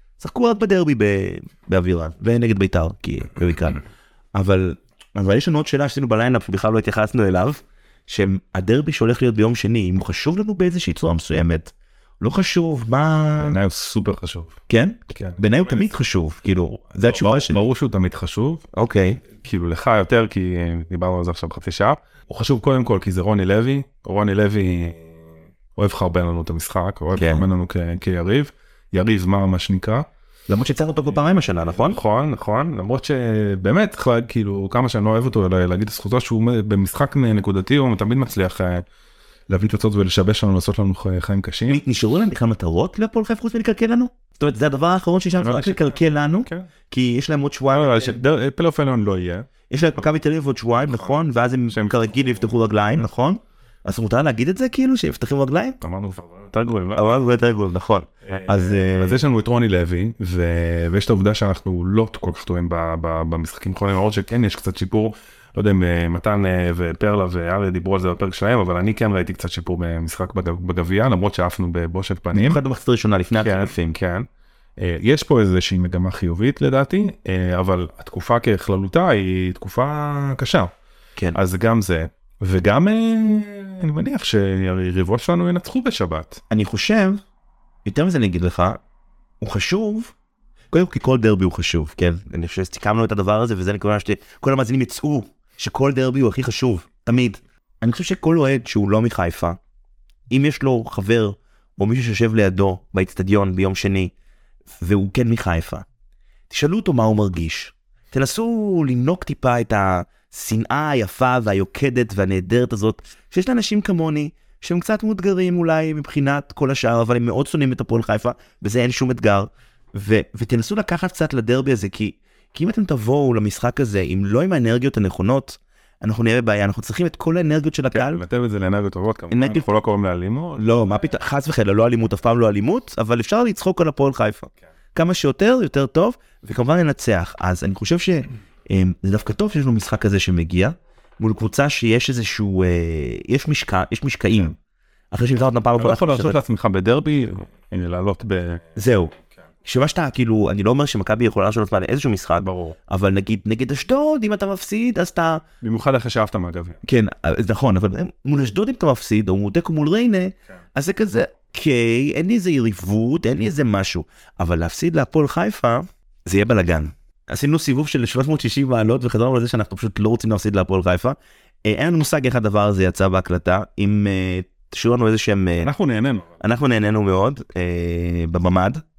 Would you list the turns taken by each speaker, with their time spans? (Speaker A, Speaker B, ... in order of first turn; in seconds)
Speaker A: 0.2-3.8, 4.3-13.6, 14.7-17.6, 18.7-19.2, 27.1-27.4, 30.5-32.0, 41.7-48.2, 49.7-55.8, 56.9-59.2, 72.3-73.9, 86.5-87.2, 87.8-88.8, 89.4-90.1, 90.7-99.6, 100.3-104.1, 104.8-105.8, 106.5-128.2, 129.3-129.7, 130.6-144.6, 145.1-146.4, 148.7-149.1, 149.6-155.4, 156.8-175.7, 176.4-178.8
Speaker B: 13.4-16.0, 17.0-18.6, 19.4-25.0, 25.7-30.1, 31.8-38.8, 39.5-41.8, 45.4-46.7, 47.7-49.5, 51.7-52.2, 55.8-57.0, 58.3-72.6, 73.3-80.7, 81.3-86.4, 127.9-130.7, 145.8-148.7, 152.4-152.8, 155.6-156.8, 175.6-176.3